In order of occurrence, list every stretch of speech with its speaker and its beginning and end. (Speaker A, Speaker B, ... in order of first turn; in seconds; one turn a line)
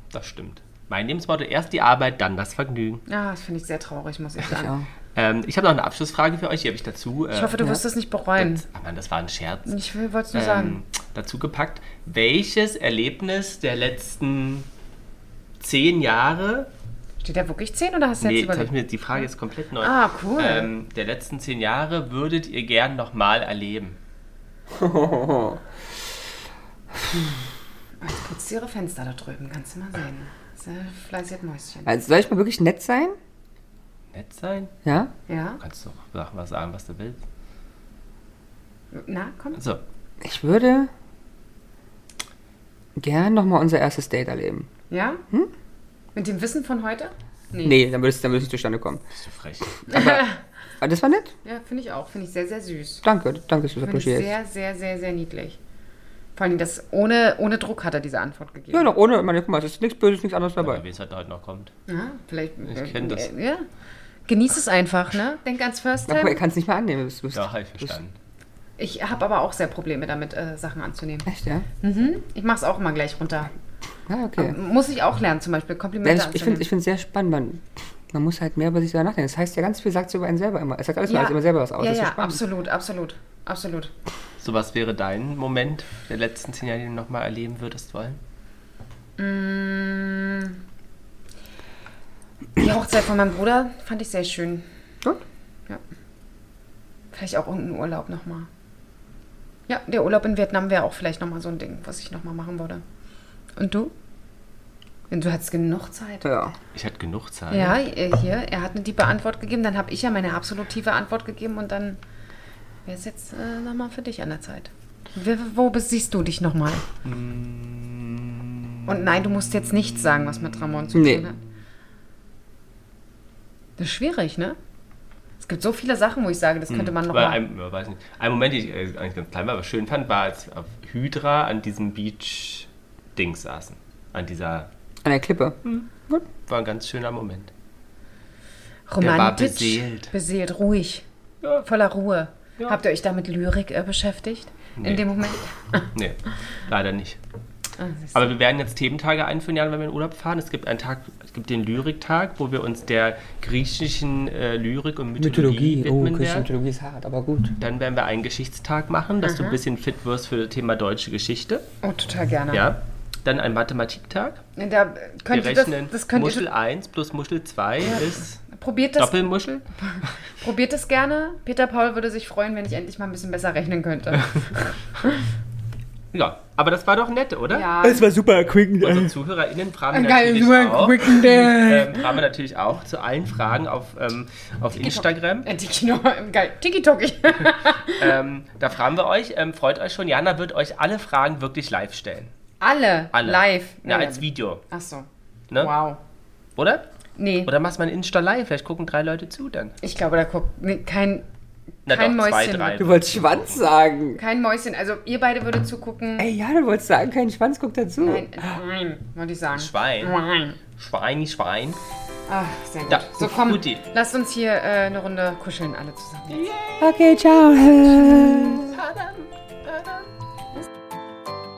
Speaker A: 0.1-3.0
Speaker B: 3.1-4.7
Speaker C: 4.5-4.9
Speaker A: 5.1-7.5
Speaker B: 7.3-8.6
Speaker A: 8.4-9.7
Speaker B: 9.7-10.8
Speaker A: 10.3-14.7
Speaker A: 15.6-16.7
Speaker B: 17.2-19.2
Speaker A: 18.2-24.0
Speaker B: 19.8-20.7
Speaker C: 24.7-25.6
Speaker B: 28.0-31.9
Speaker C: 31.9-33.1
Speaker A: 34.1-34.7
Speaker C: 34.8-35.1
Speaker B: 35.3-35.6
Speaker A: 35.6-37.2
Speaker B: 38.9-39.6
Speaker A: 39.5-39.8
Speaker C: 40.2-40.9
Speaker C: 43.0-44.7
Speaker B: 44.9-45.2
Speaker B: 46.1-47.8
Speaker C: 47.6-49.0
Speaker A: 49.1-49.8
Speaker C: 49.9-50.3
Speaker B: 49.9-50.4
Speaker C: 50.8-51.3
Speaker B: 51.4-53.0
Speaker C: 53.0-54.3
Speaker B: 53.8-55.6
Speaker B: 56.4-58.9
Speaker C: 58.7-60.8
Speaker A: 60.6-61.7
Speaker B: 61.9-63.6
Speaker A: 62.6-63.3
Speaker B: 64.3-66.4
Speaker C: 66.1-67.9
Speaker A: 67.3-68.1
Speaker B: 68.8-71.3
Speaker C: 71.2-71.7
Speaker B: 71.8-73.5
Speaker C: 74.1-74.5
Speaker B: 74.4-76.7
Speaker C: 76.0-82.4
Speaker B: 81.1-83.9
Speaker A: 84.4-88.2
Speaker B: 89.2-90.6
Speaker B: 92.6-94.7
Speaker B: 97.1-98.5
Speaker B: 99.7-102.8
Speaker B: 103.6-103.9
Speaker B: 105.1-106.2
Speaker C: 106.2-106.5
Speaker A: 106.7-107.8
Speaker B: 107.5-112.0
Speaker B: 112.8-116.9
Speaker A: 117.0-118.8
Speaker B: 118.9-121.4
Speaker C: 120.9-121.3
Speaker B: 123.8-124.6
Speaker B: 125.4-127.4
Speaker A: 126.7-134.7
Speaker C: 135.0-136.2
Speaker A: 136.4-137.5
Speaker B: 138.9-141.0
Speaker A: 139.0-140.1
Speaker B: 141.6-145.9
Speaker A: 144.8-145.1
Speaker A: 145.9-147.2
Speaker B: 147.8-148.3
Speaker A: 148.1-156.5
Speaker C: 155.2-157.5
Speaker A: 157.6-161.7
Speaker B: 159.2-159.6
Speaker B: 161.8-162.7
Speaker A: 162.5-164.4
Speaker B: 164.6-166.4
Speaker A: 165.3-168.4
Speaker B: 167.8-175.2
Speaker A: 168.9-170.1
Speaker A: 176.1-177.7
Speaker B: 177.5-178.1
Speaker C: 177.8-179.1
Speaker A: 178.8-185.5
Speaker B: 179.9-182.1
Speaker C: 181.2-181.8
Speaker B: 184.7-188.2
Speaker A: 187.9-192.3
Speaker B: 192.6-196.0
Speaker A: 193.1-194.6
Speaker A: 196.6-196.8
Speaker B: 197.2-197.5
Speaker A: 197.4-199.8
Speaker B: 199.8-201.2
Speaker B: 201.8-202.8
Speaker A: 201.8-203.6
Speaker C: 202.8-204.2
Speaker B: 204.2-206.3
Speaker C: 206.2-208.3
Speaker B: 208.0-210.6
Speaker A: 209.5-210.2
Speaker A: 210.8-211.8
Speaker B: 212.3-216.5
Speaker A: 212.9-213.8
Speaker A: 216.3-216.9
Speaker C: 216.8-218.8
Speaker B: 218.0-218.7
Speaker A: 218.7-220.0